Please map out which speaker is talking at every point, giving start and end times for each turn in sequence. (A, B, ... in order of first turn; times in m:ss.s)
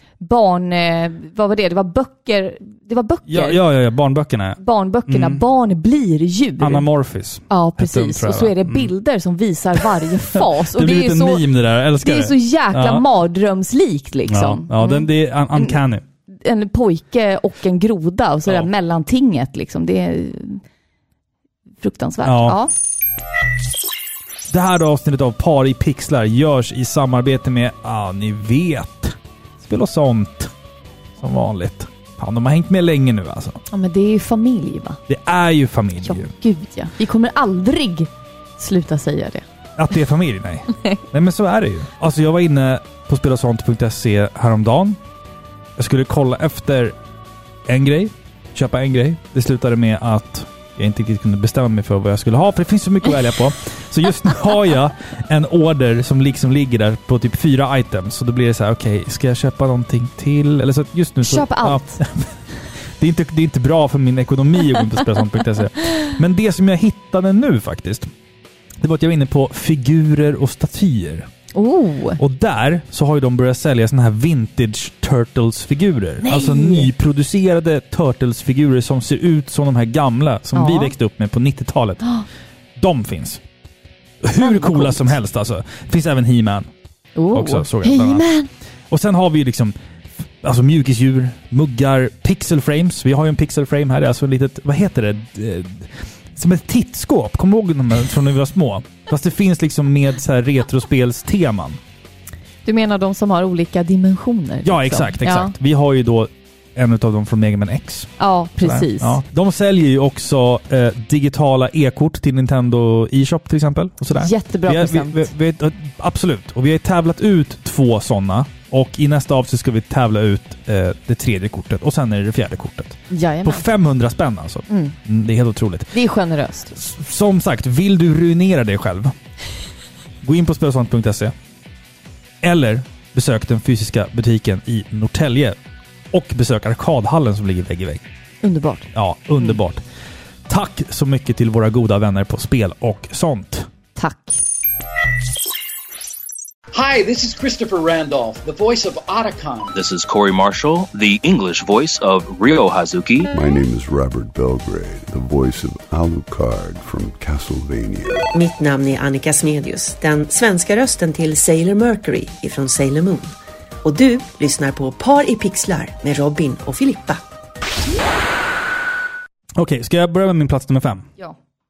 0:00.2-0:03.6 A
0:03.3-0:05.4 B
0:04.6-0:06.8 A
0:06.6-0:08.9 B
0:07.5-0:11.5 A
0:10.3-0:13.0 B
0:12.0-0:15.8 A
0:14.3-0:16.0 B
0:16.3-0:20.6 A
0:21.8-0:22.7 A
0:22.2-0:22.6 B
0:24.5-0:30.5 B
0:31.2-0:33.6 B
0:33.7-0:35.0 A
0:35.1-0:36.3 B
0:36.0-0:39.4 A
0:39.8-0:45.0 B
0:45.8-0:47.0 B
0:47.7-1:02.3 B
1:01.2-1:02.0 A
1:03.0-1:08.1 B
1:08.8-1:11.3 B
1:11.5-1:12.2 A
1:12.2-1:22.0 B
1:16.2-1:16.9 A
1:20.5-1:20.9 A
1:22.8-1:23.4 B
1:24.2-1:26.7 B
1:24.4-1:25.2 A
1:27.2-1:28.5 A
1:27.3-1:28.3 B
1:28.9-1:29.7 B
1:30.4-1:41.8 B
1:42.6-1:45.5 A
1:44.6-2:05.9 B
1:48.2-1:49.2 A
1:54.2-1:55.3 A
2:03.1-2:03.7 A
2:04.7-2:05.0 A
2:05.9-2:06.7 A
2:06.7-2:09.1 B
2:10.2-2:11.3 B
2:12.4-2:15.6 B
2:16.1-2:18.0 B
2:18.4-2:18.9 A
2:18.9-2:19.8 B
2:20.5-2:23.7 B
2:24.0-2:24.4 A
2:26.7-2:29.7 C
2:29.7-2:33.3 D
2:33.3-2:38.3 E
2:38.3-2:47.2 F
2:49.6-2:51.0 B